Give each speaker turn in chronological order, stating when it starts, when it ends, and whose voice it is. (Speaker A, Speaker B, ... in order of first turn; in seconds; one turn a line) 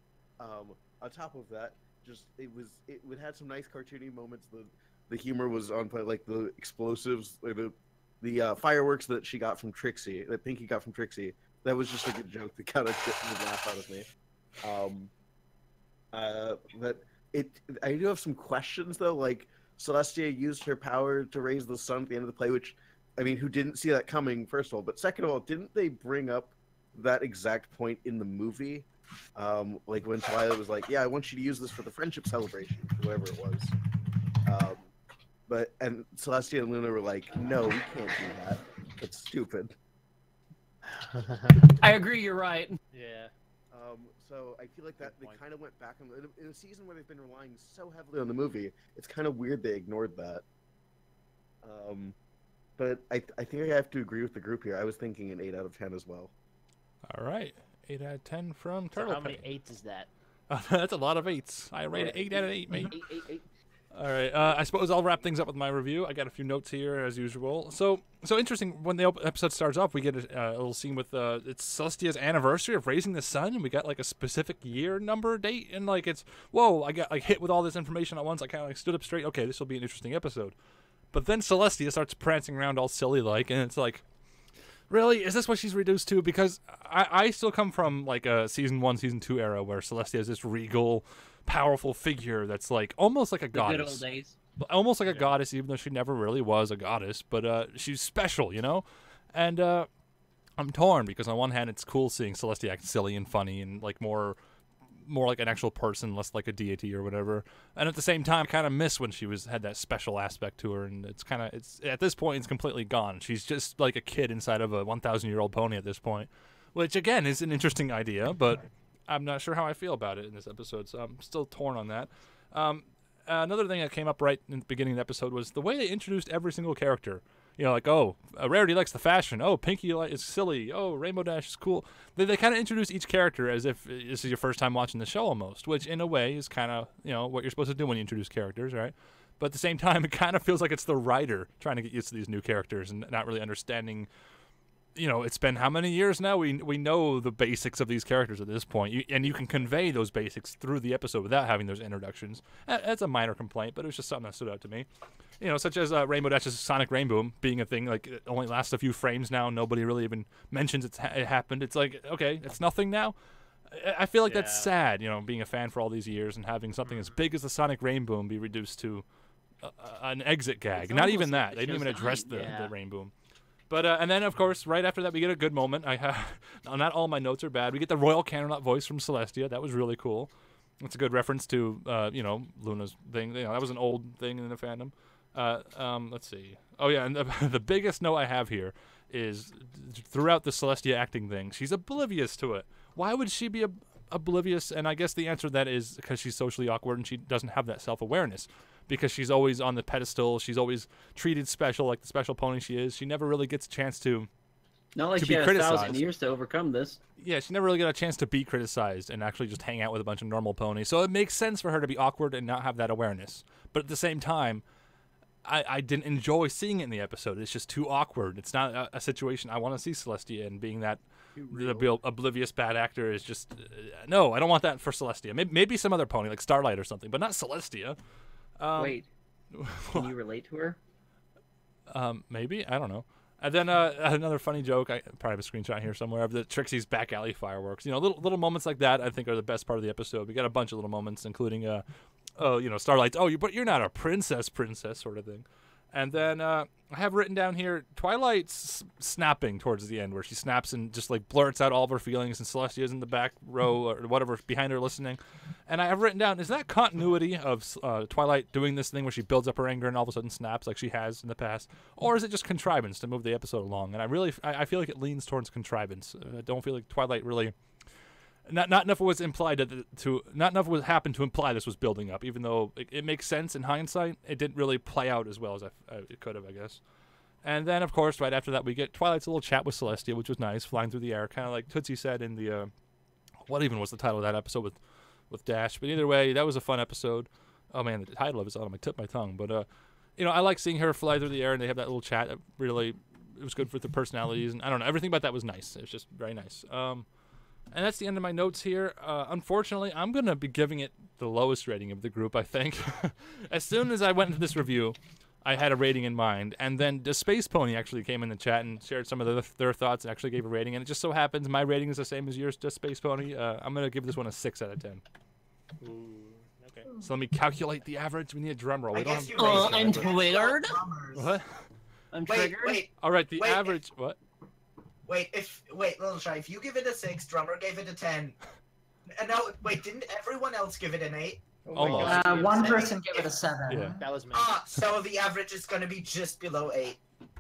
Speaker A: 0.4-14.1
Speaker A: 14.6-15.1
Speaker A: 16.1-33.7
Speaker A: 34.5-34.9
Speaker A: 35.5-39.8
Speaker B: 40.9-41.7
Speaker C: 41.8-42.8
Speaker B: 42.9-43.3
Speaker A: 43.7-50.4
Speaker B: 45.0-45.4
Speaker A: 51.6-52.1
Speaker A: 52.8-56.3
Speaker D: 57.1-59.5
Speaker B: 58.9-60.1
Speaker D: 60.5-63.0
Speaker B: 61.9-63.4
Speaker D: 63.9-80.5
Speaker D: 81.1-84.0
Speaker D: 84.9-94.0
Speaker C: 93.5-94.4
Speaker D: 94.6-99.9
Speaker B: 95.1-95.3
Speaker D: 100.6-104.4
Speaker D: 105.0-144.1
Speaker D: 144.9-154.9
Speaker D: 155.4-163.2
Speaker D: 163.7-169.1
Speaker B: 164.2-164.7
Speaker B: 166.8-167.2
Speaker D: 169.6-173.1
Speaker C: 170.8-172.5
Speaker B: 172.3-172.8
Speaker D: 173.7-204.3
Speaker C: 204.9-207.0
Speaker D: 205.2-206.0
Speaker D: 207.2-214.6
Speaker D: 215.4-228.0
Speaker A: 221.3-221.9
Speaker D: 228.6-229.0
Speaker C: 228.8-229.1
Speaker D: 229.5-230.1
Speaker C: 229.9-230.8
Speaker D: 231.9-241.8
Speaker D: 242.4-267.5
Speaker D: 268.5-276.8
Speaker D: 277.4-282.7
Speaker D: 283.4-284.8
Speaker D: 285.3-289.6
Speaker D: 290.2-297.1
Speaker D: 297.7-315.0
Speaker B: 315.8-316.9
Speaker D: 317.0-320.1
Speaker E: 318.9-321.4
Speaker C: 319.4-320.8
Speaker D: 321.1-321.6
Speaker C: 322.1-322.8
Speaker E: 322.3-323.8
Speaker D: 323.0-324.2
Speaker E: 325.1-328.4
Speaker E: 329.1-331.6
Speaker A: 331.6-332.6
Speaker D: 331.7-332.2
Speaker B: 331.9-332.9
Speaker F: 332.1-334.0
Speaker E: 332.1-333.3
Speaker D: 333.7-334.0
Speaker B: 334.0-334.6
Speaker E: 334.3-337.0